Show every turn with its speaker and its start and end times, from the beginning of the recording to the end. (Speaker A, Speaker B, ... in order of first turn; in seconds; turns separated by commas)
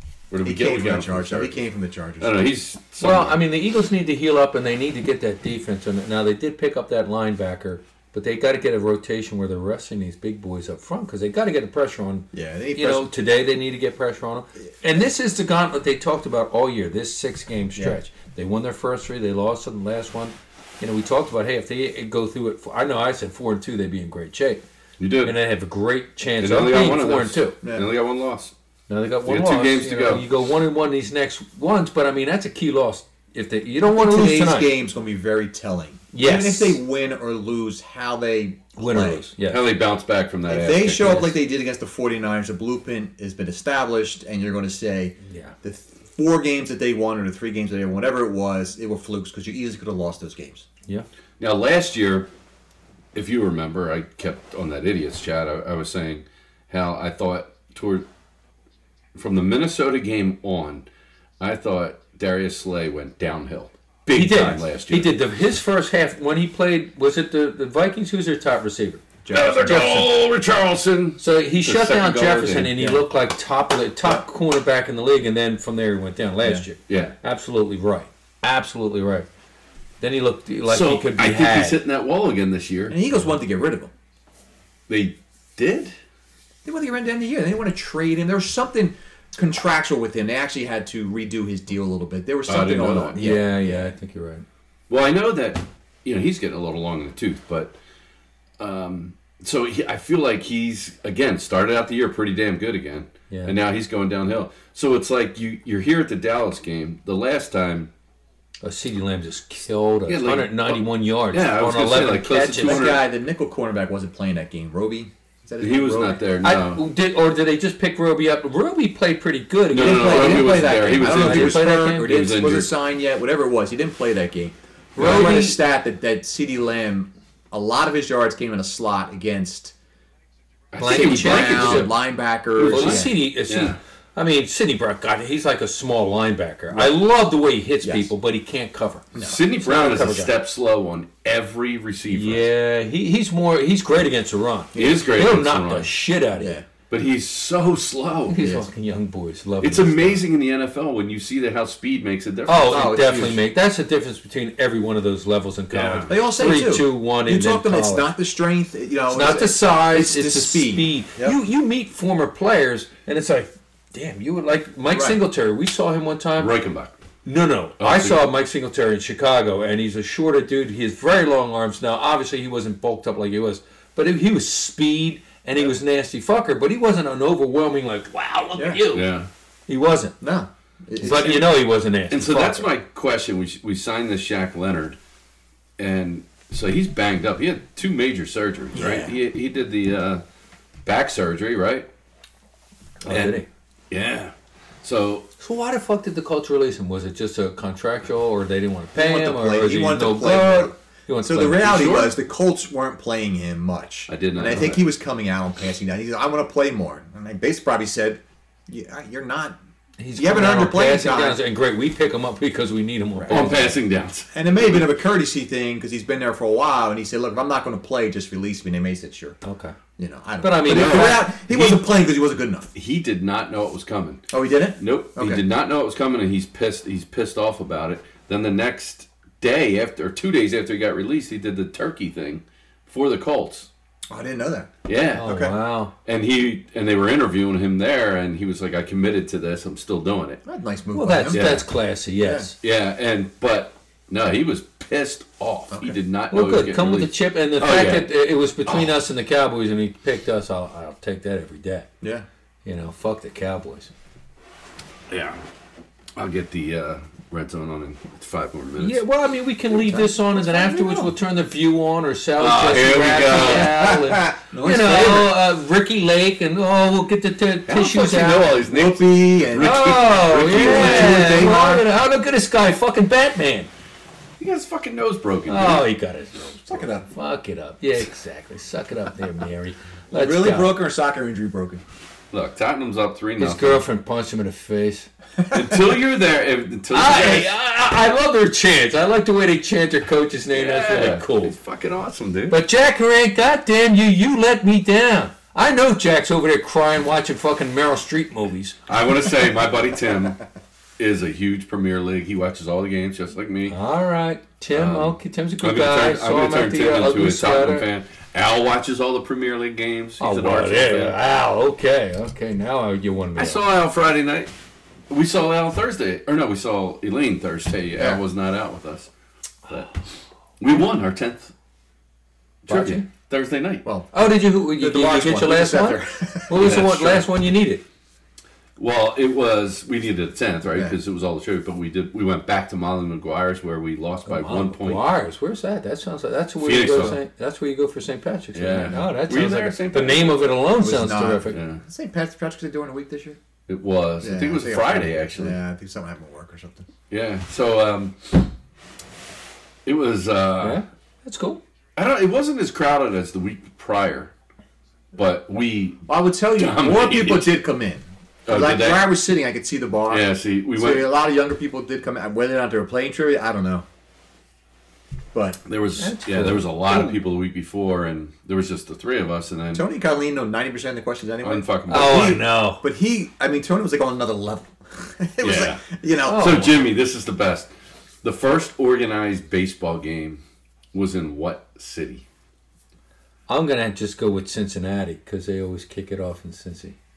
Speaker A: 0.3-1.6, Speaker B: 0.4-2.3, Speaker A: 2.2-3.4, Speaker C: 3.0-24.6, Speaker B: 12.3-13.1, Speaker A: 25.0-25.4, Speaker C: 25.2-27.5, Speaker A: 26.4-28.5, Speaker B: 27.6-27.9, Speaker C: 28.9-34.7, Speaker A: 29.2-30.3, Speaker B: 33.9-39.2, Speaker C: 36.1-36.8, Speaker C: 38.8-39.7, Speaker A: 39.5-41.2, Speaker B: 40.5-50.6, Speaker C: 41.0-41.3, Speaker C: 45.2-45.5, Speaker A: 51.4-52.3, Speaker A: 53.1-58.1, Speaker A: 59.1-60.9, Speaker A: 61.4-65.2, Speaker C: 64.1-69.0, Speaker B: 69.2-70.0, Speaker A: 69.3-73.0, Speaker C: 69.6-70.1, Speaker C: 71.2-79.3, Speaker A: 76.9-77.1, Speaker C: 80.0-81.8, Speaker A: 80.7-83.0, Speaker B: 82.9-83.9, Speaker A: 84.9-85.9, Speaker B: 86.6-93.9, Speaker A: 92.5-93.2, Speaker C: 93.2-94.4, Speaker A: 94.9-97.8, Speaker A: 98.6-107.9, Speaker C: 103.3-103.5, Speaker C: 108.6-112.8, Speaker A: 110.1-113.0, Speaker B: 112.6-116.2, Speaker A: 115.6-116.8, Speaker C: 116.4-122.4, Speaker A: 119.7-122.7, Speaker B: 119.7-129.7, Speaker C: 125.0-125.6, Speaker A: 125.0-125.5, Speaker A: 130.7-132.0, Speaker C: 130.8-131.9, Speaker B: 130.8-133.1, Speaker A: 132.5-133.8, Speaker C: 132.6-140.3, Speaker B: 137.8-138.1, Speaker B: 139.1-139.4, Speaker A: 139.2-142.5, Speaker C: 142.1-146.6, Speaker B: 144.7-145.0, Speaker A: 144.7-145.9, Speaker B: 146.4-146.7, Speaker A: 146.9-148.5, Speaker C: 148.3-150.2, Speaker B: 148.4-148.7, Speaker A: 149.6-153.3, Speaker C: 152.5-158.1, Speaker B: 152.7-153.4, Speaker A: 155.7-156.2, Speaker B: 156.1-161.4, Speaker C: 159.1-166.5, Speaker B: 164.9-165.2, Speaker A: 166.4-167.0, Speaker C: 167.2-179.1, Speaker A: 167.8-168.2, Speaker B: 178.5-178.8, Speaker A: 178.9-179.3, Speaker C: 179.7-180.2, Speaker B: 180.2-181.5, Speaker C: 181.0-182.7, Speaker A: 182.1-185.0, Speaker A: 185.8-190.2, Speaker B: 188.7-189.2, Speaker A: 190.8-191.9, Speaker C: 193.0-193.4, Speaker A: 193.1-195.3, Speaker C: 195.4-201.7, Speaker B: 198.9-209.6, Speaker A: 201.5-202.1, Speaker A: 204.1-204.8, Speaker C: 210.0-213.8, Speaker B: 210.2-211.4, Speaker B: 213.2-213.5, Speaker A: 213.3-214.9, Speaker B: 214.3-219.4, Speaker C: 219.4-219.8, Speaker B: 220.0-222.7, Speaker C: 220.4-221.3, Speaker A: 220.6-221.9, Speaker A: 222.7-233.7, Speaker B: 224.3-225.4, Speaker B: 234.1-234.7, Speaker A: 234.8-235.3, Speaker C: 235.1-235.9, Speaker B: 235.2-235.6, Speaker A: 236.0-240.4, Speaker B: 240.4-241.5, Speaker C: 240.9-242.6, Speaker A: 241.3-241.7, Speaker B: 242.2-242.5, Speaker A: 242.6-248.1, Speaker B: 245.7-246.0, Speaker C: 246.3-251.9, Speaker B: 252.0-252.2, Speaker C: 252.6-253.9, Speaker A: 255.1-255.4, Speaker A: 256.1-259.0, Speaker C: 258.8-268.5, Speaker B: 259.8-261.1, Speaker A: 262.4-264.3, Speaker B: 263.6-265.4, Speaker A: 267.7-271.6, Speaker B: 268.6-271.9, Speaker C: 269.6-273.7, Speaker A: 274.4-275.9, Speaker C: 275.5-280.8, Speaker B: 276.6-277.1, Speaker B: 280.1-281.8, Speaker A: 282.3-283.8, Speaker C: 283.4-285.1, Speaker A: 285.5-287.5, Speaker B: 285.5-285.8, Speaker C: 286.9-291.5, Speaker A: 290.5-292.6, Speaker C: 292.5-298.8, Speaker A: 298.9-300.4, Speaker A: 301.0-303.8, Speaker C: 303.7-307.9, Speaker A: 304.7-311.2, Speaker C: 310.2-313.6, Speaker A: 313.4-314.5, Speaker A: 315.1-319.1, Speaker A: 320.6-321.5, Speaker A: 322.7-323.8, Speaker C: 322.7-323.1, Speaker B: 323.8-326.7, Speaker C: 324.1-327.8, Speaker A: 326.5-327.3, Speaker A: 328.8-335.1, Speaker B: 330.7-331.0, Speaker C: 334.3-341.6, Speaker A: 336.6-337.2, Speaker A: 338.5-340.5, Speaker B: 340.8-343.4, Speaker A: 341.5-341.8, Speaker A: 343.7-345.6, Speaker B: 344.2-346.9, Speaker A: 347.1-348.5, Speaker A: 349.9-350.8, Speaker C: 350.6-351.6, Speaker A: 351.9-354.3, Speaker A: 355.1-357.6, Speaker B: 356.1-363.8, Speaker A: 358.4-359.1, Speaker A: 360.1-361.1, Speaker B: 365.3-365.6, Speaker A: 365.6-369.8, Speaker C: 366.0-367.2, Speaker B: 369.7-376.8, Speaker A: 371.4-372.4, Speaker C: 371.9-372.8, Speaker A: 375.4-377.7, Speaker C: 376.2-376.7, Speaker A: 378.2-380.4, Speaker A: 380.9-382.2, Speaker C: 383.5-386.9